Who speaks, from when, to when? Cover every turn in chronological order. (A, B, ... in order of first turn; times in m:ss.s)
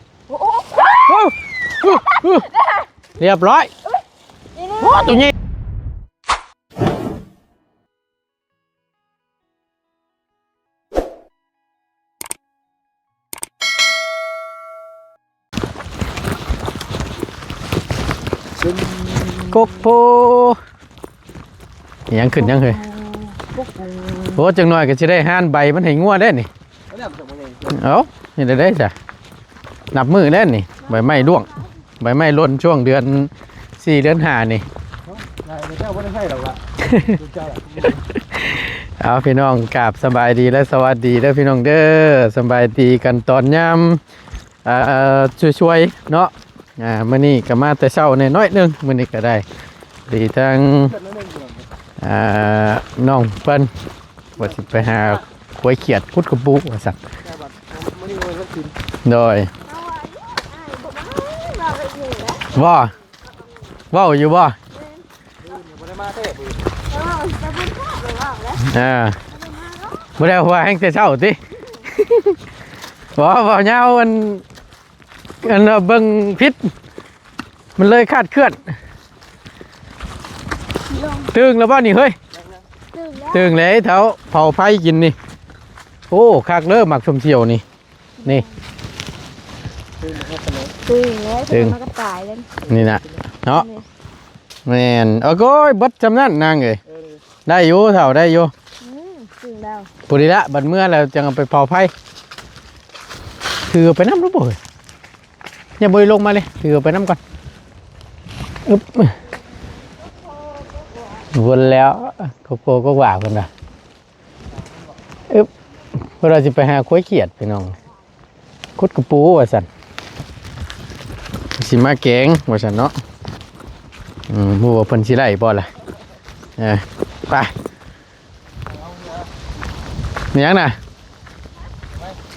0:00.3-0:02.9 A
0:01.0-0:02.5 B
0:03.2-0:03.7 B
0:04.5-0:05.3 A
0:04.8-0:05.3 B
0:18.6-0:19.6 C
0:19.5-0:20.6 B
0:22.1-0:22.8 B
0:22.6-0:24.4 C
0:24.4-0:26.5 B
0:26.9-0:27.8 C
0:27.7-0:28.9 B
0:29.9-0:31.5 B
0:30.8-0:31.8 A
0:32.0-0:34.6 B
0:35.0-0:38.0 C
0:36.8-0:37.2 B
0:38.3-0:44.0 B
0:44.6-0:49.4 B
0:50.1-0:50.9 B
0:50.8-0:51.7 C
0:52.0-0:53.7 B
0:54.4-0:55.2 C
0:54.4-0:57.0 B
0:57.2-0:58.8 C
0:59.0-0:59.5 B
0:59.6-1:03.8 A
1:02.5-1:02.9 B
1:03.9-1:04.6 B
1:04.7-1:05.0 A
1:05.4-1:06.7 C
1:06.9-1:08.7 A
1:08.6-1:09.2 B
1:09.3-1:10.1 A
1:10.2-1:11.4 B
1:11.7-1:12.3 A
1:13.1-1:14.4 B
1:15.4-1:16.7 B
1:17.8-1:18.7 B
1:20.9-1:21.3 A
1:21.3-1:22.2 B
1:22.3-1:22.6 C
1:22.9-1:23.5 A
1:23.3-1:25.2 B
1:26.1-1:27.6 B
1:28.2-1:28.7 A
1:30.0-1:30.8 C
1:30.9-1:32.5 A
1:31.5-1:31.8 B
1:32.6-1:33.2 C
1:32.7-1:33.7 B
1:33.5-1:33.8 A
1:34.7-1:36.8 B
1:36.9-1:37.2 C
1:37.4-1:38.5 B
1:38.8-1:39.9 A
1:40.1-1:41.9 B
1:43.7-1:44.6 B
1:45.8-1:47.2 B
1:48.6-1:49.2 B
1:49.8-1:51.3 A
1:51.3-1:53.5 B
1:54.5-1:55.0 C
1:56.2-1:57.7 B
1:58.8-1:59.7 B
2:01.6-2:02.9 B
2:04.3-2:05.7 B
2:06.6-2:07.5 B
2:08.7-2:09.3 C
2:10.3-2:10.8 B
2:11.9-2:12.2 C